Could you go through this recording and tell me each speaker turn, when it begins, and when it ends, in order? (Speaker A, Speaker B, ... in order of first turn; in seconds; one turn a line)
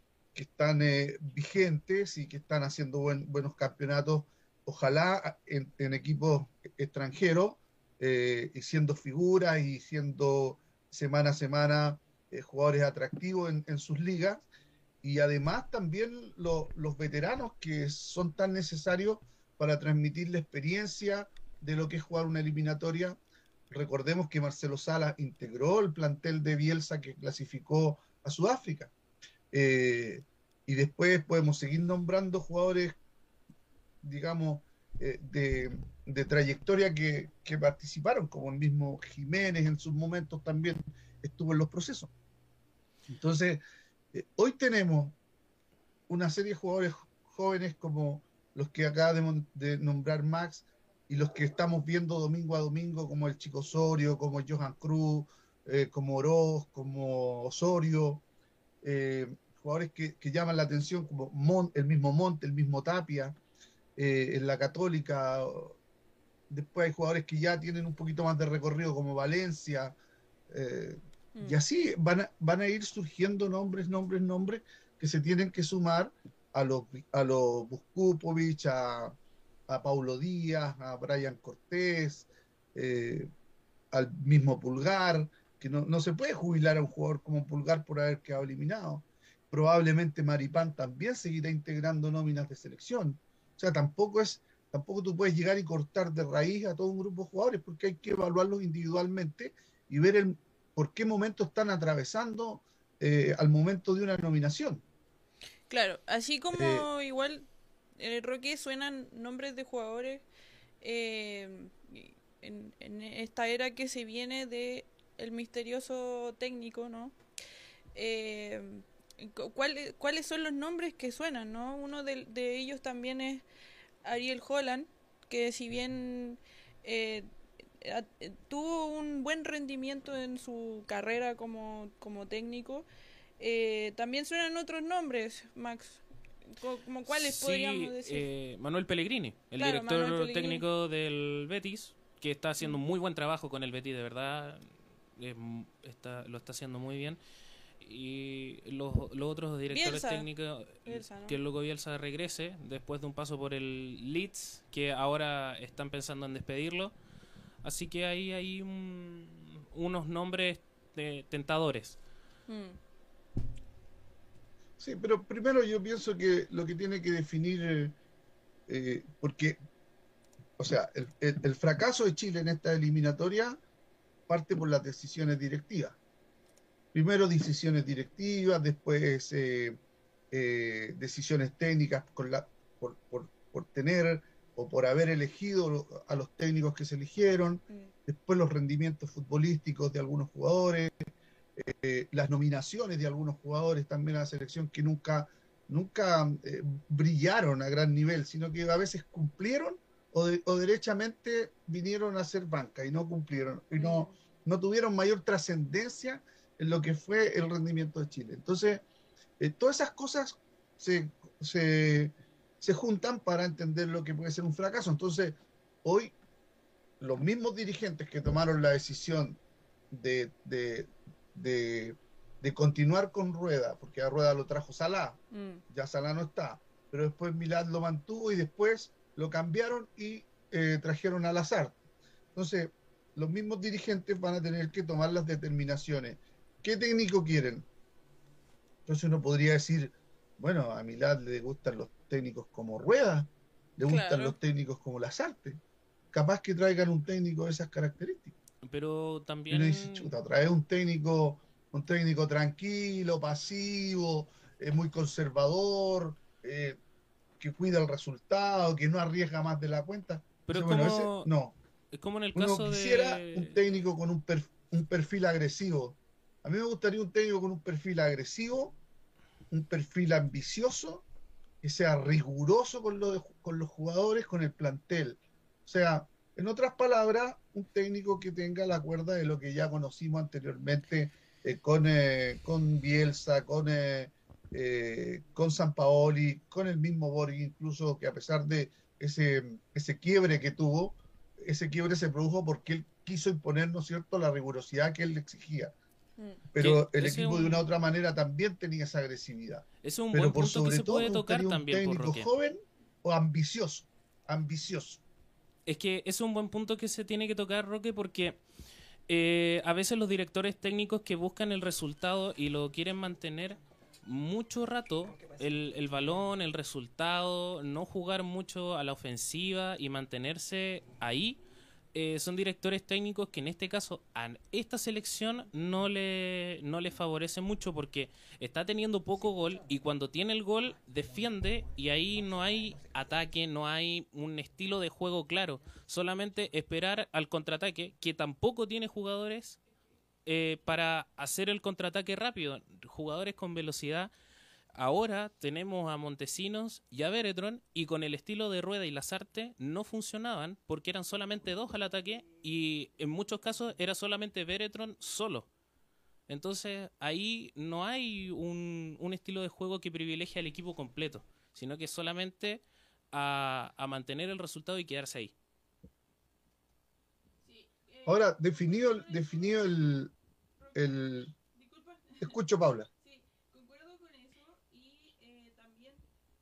Speaker A: 0.3-14.4
Speaker A: 15.0-23.2
Speaker A: 23.7-28.9
Speaker A: 29.5-33.0
Speaker A: 34.0-42.1
Speaker A: 43.1-43.6
Speaker A: 44.1-45.2
Speaker A: 46.1-58.2
Speaker A: 58.8-63.4
Speaker A: 64.0-65.8
Speaker A: 66.5-70.0
Speaker A: 70.5-79.2
Speaker B: 71.3-71.6
Speaker A: 79.7-83.3
Speaker A: 83.9-104.8
Speaker B: 105.7-107.5
Speaker A: 106.5-106.8
Speaker B: 108.0-110.2
Speaker B: 110.8-117.2
Speaker B: 117.9-123.4
Speaker B: 124.0-127.3
Speaker B: 127.8-132.8
Speaker B: 133.4-138.3
Speaker C: 137.1-144.7
Speaker B: 139.6-140.6
Speaker C: 145.2-147.2
Speaker C: 147.8-156.9
Speaker B: 149.7-150.3
Speaker B: 150.8-151.4
Speaker C: 157.6-162.0
Speaker B: 162.5-162.8
Speaker A: 164.8-167.9
Speaker A: 168.7-169.6
Speaker A: 170.6-173.6
Speaker A: 174.3-176.0
Speaker A: 176.9-179.8
Speaker A: 180.3-208.8
Speaker B: 203.8-204.1
Speaker A: 209.4-216.2
Speaker A: 217.0-225.2
Speaker B: 225.3-225.6
Speaker A: 225.7-231.8
Speaker A: 232.3-237.7
Speaker A: 238.8-245.6
Speaker B: 243.8-244.3
Speaker A: 246.1-248.3
Speaker C: 248.7-250.1
Speaker A: 249.5-256.8
Speaker A: 257.4-261.5
Speaker C: 260.4-261.3
Speaker C: 261.9-263.6
Speaker A: 262.3-268.8
Speaker A: 269.5-271.1
Speaker A: 271.6-295.7
Speaker A: 296.5-305.0
Speaker C: 296.6-297.7
Speaker C: 299.8-302.3
Speaker C: 305.7-308.4
Speaker C: 309.1-321.4
Speaker C: 321.9-339.6
Speaker C: 340.2-344.1
Speaker C: 344.7-355.5
Speaker C: 356.3-365.3
Speaker B: 367.4-370.0
Speaker A: 368.1-370.1
Speaker B: 370.6-372.4
Speaker A: 370.7-371.3
Speaker A: 372.2-372.9
Speaker B: 373.0-376.0